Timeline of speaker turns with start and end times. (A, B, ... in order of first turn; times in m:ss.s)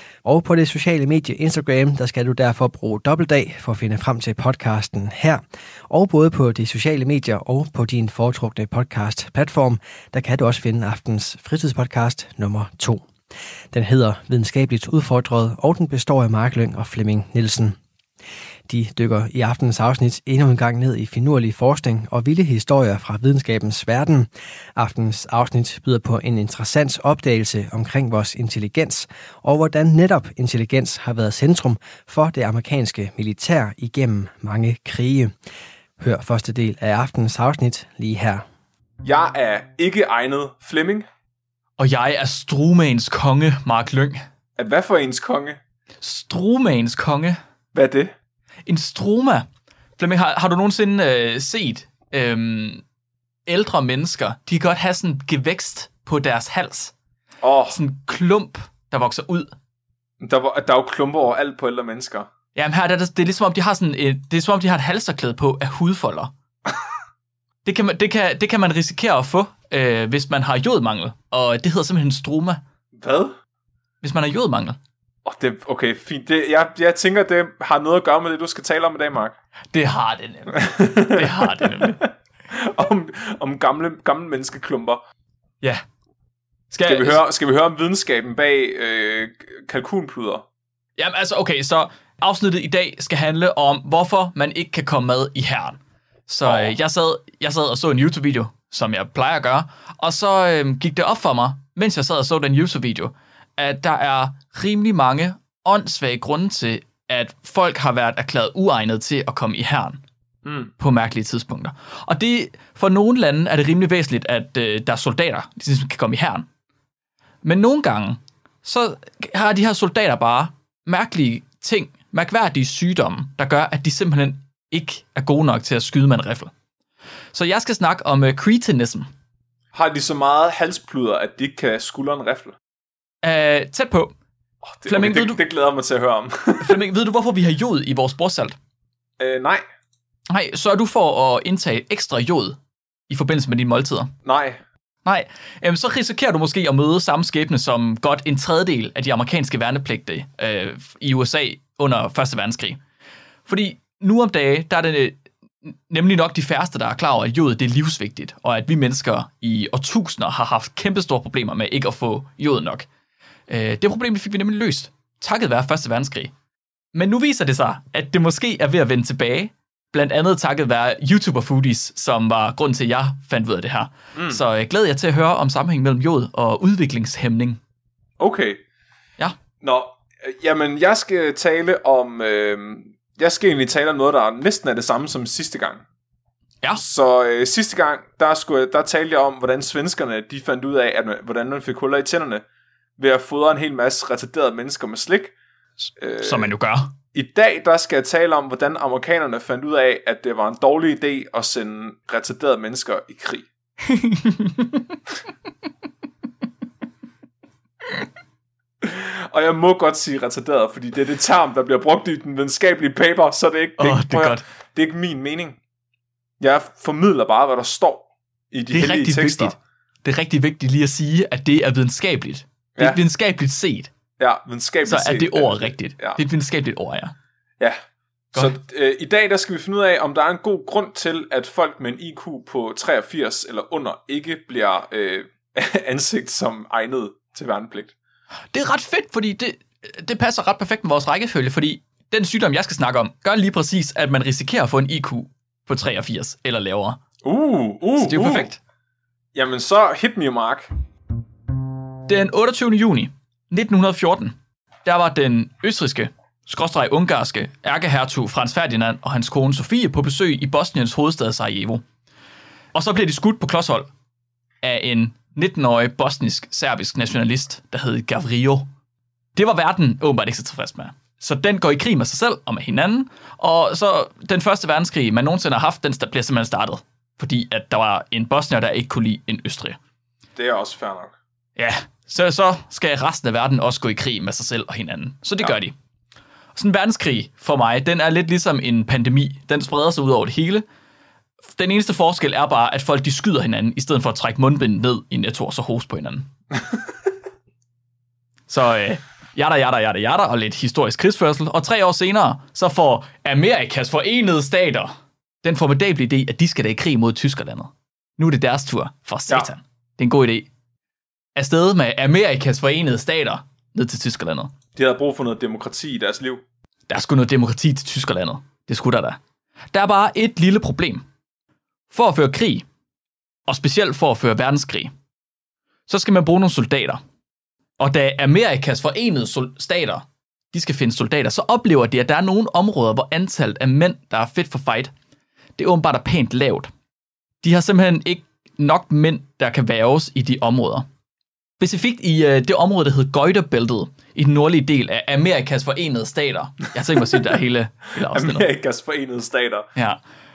0:00.2-0:13.1 A
0:13.7-0:17.8 A
0:18.7-0:35.3 A
0:36.0-0:38.4 A
0:39.0-0:41.1 B
0:41.8-0:44.2 C
0:44.6-0:45.6 B
0:46.0-0:47.4 C
0:47.7-0:48.1 B
0:48.7-0:52.8 C
0:53.5-0:56.9 C
0:57.4-0:57.8 B
0:57.7-0:59.5 C
1:00.2-1:02.3 B
1:02.6-1:06.3 C
1:07.6-1:12.6 C
1:13.0-1:13.4 B
1:14.0-1:14.8 C
1:15.2-1:19.4 B
1:19.7-1:22.1 C
1:20.5-1:25.0 B
1:26.7-1:27.2 C
1:26.8-1:30.4 B
1:31.0-1:50.0 C
1:36.4-1:36.8 B
1:50.4-1:50.7 B
1:50.8-1:56.5 C
1:57.4-2:06.5 C
2:07.3-2:09.1 C
2:09.7-2:12.6 B
2:13.2-2:14.1 C
2:14.6-2:16.8 B
2:14.9-2:15.4 C
2:16.6-2:18.6 C
2:19.2-2:19.6 B
2:20.3-2:22.6 C
2:23.1-2:24.1 C
2:24.2-2:24.6 B
2:25.1-2:32.8 C
2:33.5-2:42.9 C
2:43.5-2:46.3 C
2:46.9-2:57.6 C
2:54.2-2:54.4 B
2:58.2-2:58.6 B
2:59.6-3:05.8 B
3:06.8-3:12.4 B
3:13.0-3:15.3 B
3:16.0-3:16.5 B
3:16.2-3:16.9 C
3:17.1-3:23.5 B
3:23.9-3:24.8 C
3:28.8-3:35.6 B
3:33.8-3:34.4 C
3:36.4-3:39.6 B
3:38.7-3:43.9 C
3:44.2-3:46.2 B
3:44.9-3:47.2 C
3:48.3-3:57.9 B
3:58.5-4:07.0 C
4:07.2-4:08.5 B
4:08.0-4:08.6 C
4:09.3-4:10.7 B
4:12.1-4:21.8 C
4:22.7-4:23.9 C
4:24.6-4:28.7 C
4:29.4-4:39.8 C
4:40.4-4:41.1 B
4:41.6-4:45.8 C
4:46.6-4:50.6 C
4:51.4-4:56.3 C
4:58.5-5:10.5 C
5:11.4-5:14.6 C
5:14.8-5:16.4 B
5:16.9-5:19.2 C
5:19.7-5:21.0 C
5:21.9-5:22.6 C
5:23.5-5:24.9 C
5:25.9-5:27.0 C
5:27.8-5:34.9 C
5:35.6-5:36.7 C
5:37.4-5:40.9 C
5:41.6-5:48.5 C
5:48.0-5:49.7 B
5:49.8-5:50.0 C